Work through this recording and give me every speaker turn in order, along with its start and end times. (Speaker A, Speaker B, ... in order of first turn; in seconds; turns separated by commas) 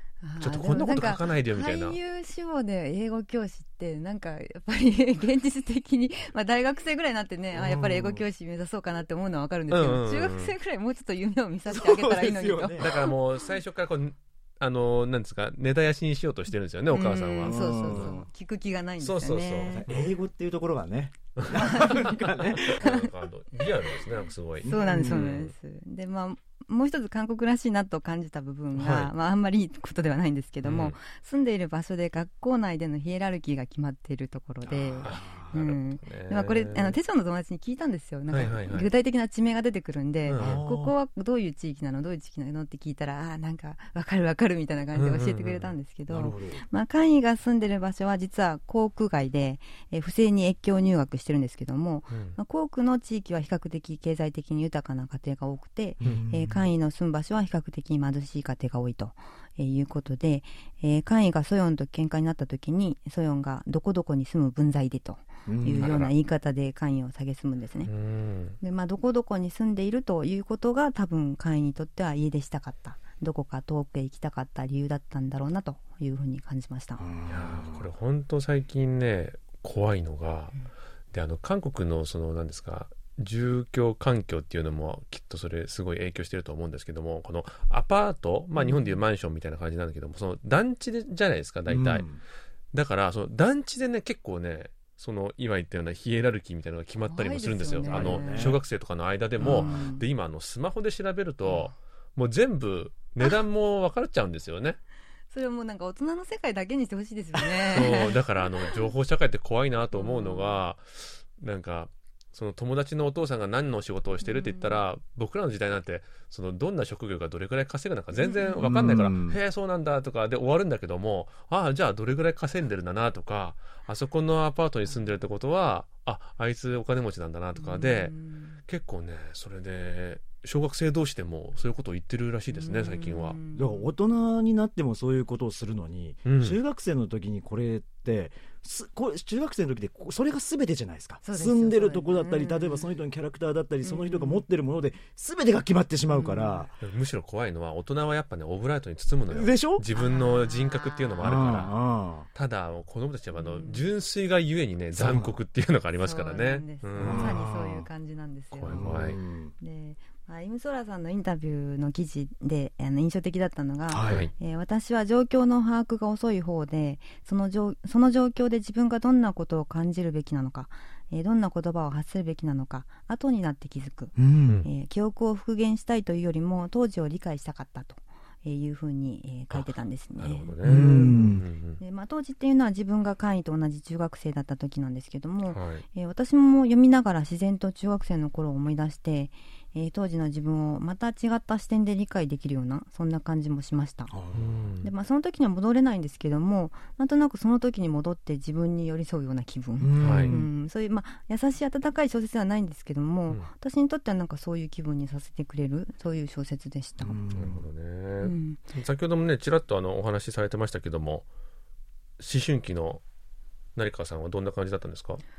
Speaker A: 0.2-13.0, Speaker B: 0.4-2.0, Speaker C: 7.5-8.2, Speaker B: 9.7-10.5, Speaker C: 11.7-13.1, Speaker B: 12.8-18.2, Speaker A: 16.9-19.9, Speaker C: 17.4-18.1, Speaker B: 19.0-20.1, Speaker C: 19.7-23.0, Speaker B: 21.4-25.5, Speaker A: 21.5-22.2, Speaker C: 24.6-25.4, Speaker A: 24.6-67.9, Speaker B: 28.7-29.1, Speaker B: 30.6-30.9, Speaker C: 34.7-35.5, Speaker B: 35.0-37.0, Speaker B: 38.3-38.9, Speaker B: 40.2-40.6, Speaker C: 40.4-40.9, Speaker B: 44.9-45.7, Speaker C: 46.1-46.6, Speaker B: 52.1-52.4, Speaker C: 56.0-56.6, Speaker C: 65.5-66.0, Speaker B: 65.8-66.1, Speaker B: 67.8-68.6, Speaker A: 68.6-77.0, Speaker C: 77.0-77.9, Speaker B: 77.3-80.5, Speaker B: 81.1-92.0, Speaker A: 88.5-89.0, Speaker C: 91.7-92.2, Speaker B: 92.7-104.8, Speaker A: 97.1-98.6, Speaker C: 97.8-98.6, Speaker C: 99.4-99.8, Speaker A: 99.4-100.0, Speaker A: 101.5-101.7, Speaker A: 105.3-108.9, Speaker C: 107.7-108.1, Speaker B: 107.7-128.2, Speaker A: 109.9-110.6, Speaker A: 114.2-114.8, Speaker A: 118.1-118.7, Speaker C: 118.6-119.4, Speaker A: 127.5-128.6, Speaker B: 128.7-133.4, Speaker A: 132.5-133.9, Speaker C: 133.5-146.8, Speaker B: 136.2-136.6, Speaker A: 141.2-142.9, Speaker A: 143.8-144.4, Speaker A: 146.1-146.7, Speaker B: 146.8-151.7, Speaker C: 149.3-149.8, Speaker A: 149.9-151.5, Speaker C: 151.2-152.3, Speaker B: 152.3-157.9, Speaker A: 153.3-153.9, Speaker C: 154.9-155.3, Speaker A: 156.0-180.5, Speaker C: 157.0-157.5, Speaker B: 158.5-159.2, Speaker C: 158.7-159.5, Speaker C: 163.9-164.3, Speaker B: 164.0-164.3, Speaker C: 174.2-174.7, Speaker B: 179.5-181.8, Speaker C: 180.6-181.4, Speaker A: 181.8-194.1, Speaker B: 185.5-185.8, Speaker C: 194.1-194.5, Speaker B: 194.3-194.9, Speaker A: 194.8-207.2, Speaker C: 199.8-200.5, Speaker B: 200.0-200.4, Speaker C: 207.0-207.6, Speaker B: 207.3-211.2, Speaker A: 208.2-208.6, Speaker B: 212.2-213.0, Speaker B: 213.8-215.2